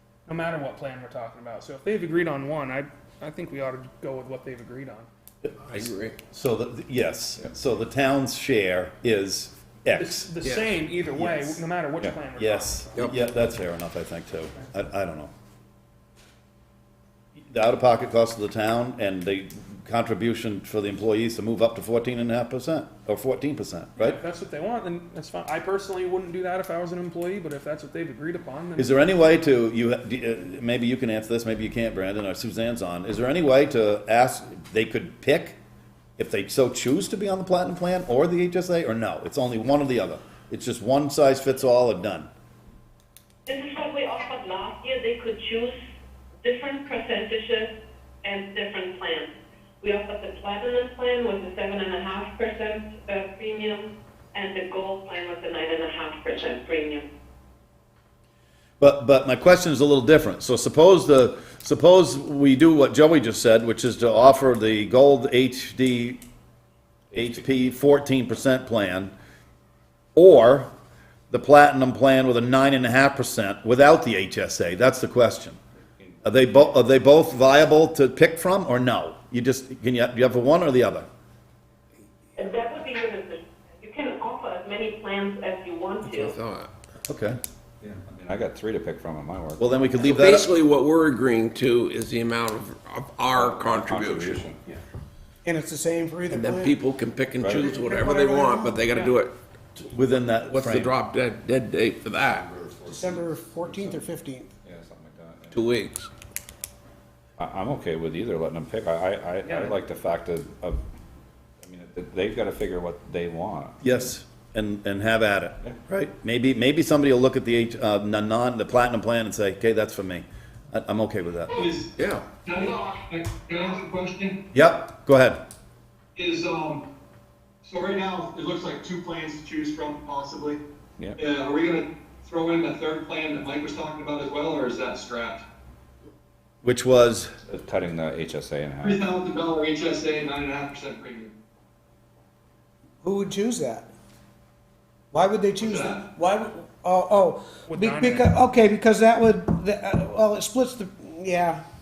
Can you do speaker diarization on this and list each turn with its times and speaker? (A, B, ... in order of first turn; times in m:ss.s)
0:00.2-0:05.1 A
0:05.4-0:10.3 B
0:05.6-0:06.2 C
0:10.0-0:13.0 A
0:10.4-0:10.8 C
0:11.2-0:11.6 B
0:12.4-0:15.3 B
0:17.4-0:24.2 B
0:24.0-0:29.0 A
0:28.8-0:35.6 B
0:36.2-0:42.3 B
0:43.5-0:45.7 D
0:46.4-0:47.7 D
0:48.2-0:49.3 D
0:49.8-0:57.0 D
0:58.8-1:06.2 B
1:07.1-1:09.1 B
1:10.1-1:10.7 B
1:11.3-1:15.6 B
1:16.2-1:21.1 B
1:22.4-1:25.9 D
1:26.0-1:26.7 C
1:27.1-1:27.4 B
1:27.8-1:29.6 E
1:29.6-1:30.5 B
1:30.0-1:34.4 C
1:33.3-1:34.6 E
1:35.4-1:36.8 F
1:36.3-1:39.3 C
1:37.4-1:37.6 E
1:37.6-1:39.0 F
1:39.8-1:40.9 B
1:40.5-1:42.4 C
1:42.2-1:43.2 B
1:42.8-1:44.5 F
1:43.6-1:44.0 E
1:44.6-1:45.7 E
1:45.5-1:46.1 C
1:47.4-1:50.8 E
1:49.4-1:49.7 A
1:51.6-1:53.8 E
1:53.8-2:01.5 B
2:01.5-2:01.9 G
2:02.0-2:02.2 C
2:02.4-2:04.4 G
2:04.5-2:05.4 B
2:06.2-2:06.8 G
2:07.6-2:10.6 G
2:11.2-2:15.4 G
2:16.6-2:17.3 B
2:17.5-2:19.0 E
2:18.8-2:21.3 G
2:23.0-2:23.9 F
2:25.1-2:31.6 F
2:25.6-2:26.0 G
2:27.7-2:28.3 A